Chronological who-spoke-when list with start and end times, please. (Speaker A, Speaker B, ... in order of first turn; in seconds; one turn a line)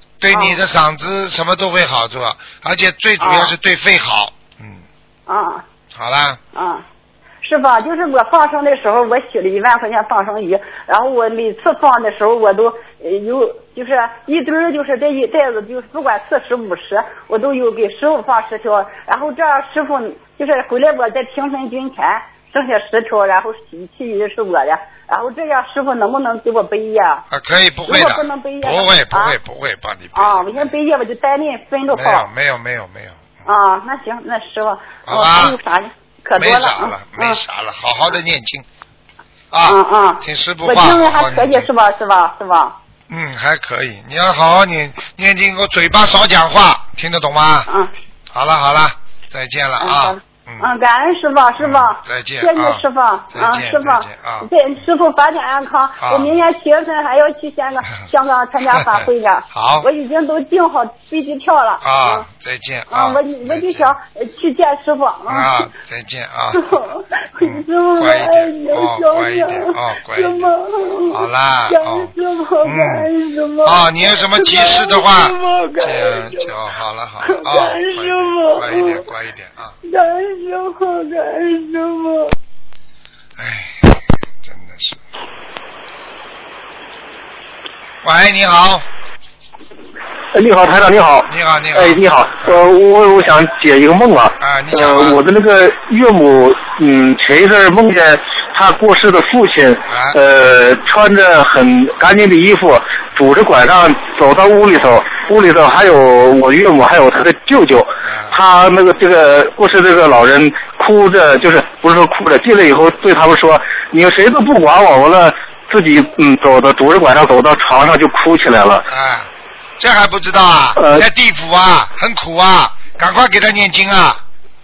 Speaker A: 0.2-4.8
Speaker B: 0.3-0.6
Speaker B: 3.2-3.5
Speaker B: 5.3-5.7
Speaker A: 5.9-6.4
Speaker B: 6.5-6.8
Speaker B: 7.4-27.2
Speaker A: 27.3-30.7
Speaker B: 27.9-29.4
Speaker B: 30.1-32.3
Speaker A: 31.9-33.4
Speaker B: 33.5-37.4
Speaker A: 35.1-35.6
Speaker A: 36.4-38.6
Speaker A: 39.5-41.7
Speaker B: 39.6-42.8
Speaker A: 43.1-47.7
Speaker B: 47.7-47.9
Speaker A: 48.3-50.7
Speaker B: 49.8-62.3
Speaker A: 51.6-54.5
Speaker A: 56.0-56.4
Speaker A: 59.5-59.9
Speaker A: 61.8-64.0
Speaker B: 62.9-65.7
Speaker A: 65.3-66.8
Speaker B: 66.6-76.5
Speaker A: 67.4-70.5
Speaker A: 71.1-72.1
Speaker A: 72.6-73.1
Speaker A: 73.6-79.8
Speaker B: 77.2-79.1
Speaker B: 79.8-82.4
Speaker A: 83.4-85.0
Speaker A: 88.0-88.9
Speaker C: 90.3-118.8
Speaker A: 91.3-92.6
Speaker A: 94.4-95.2
Speaker A: 99.9-100.2
Speaker A: 108.0-108.4
Speaker A: 118.9-124.2
Speaker C: 120.8-121.0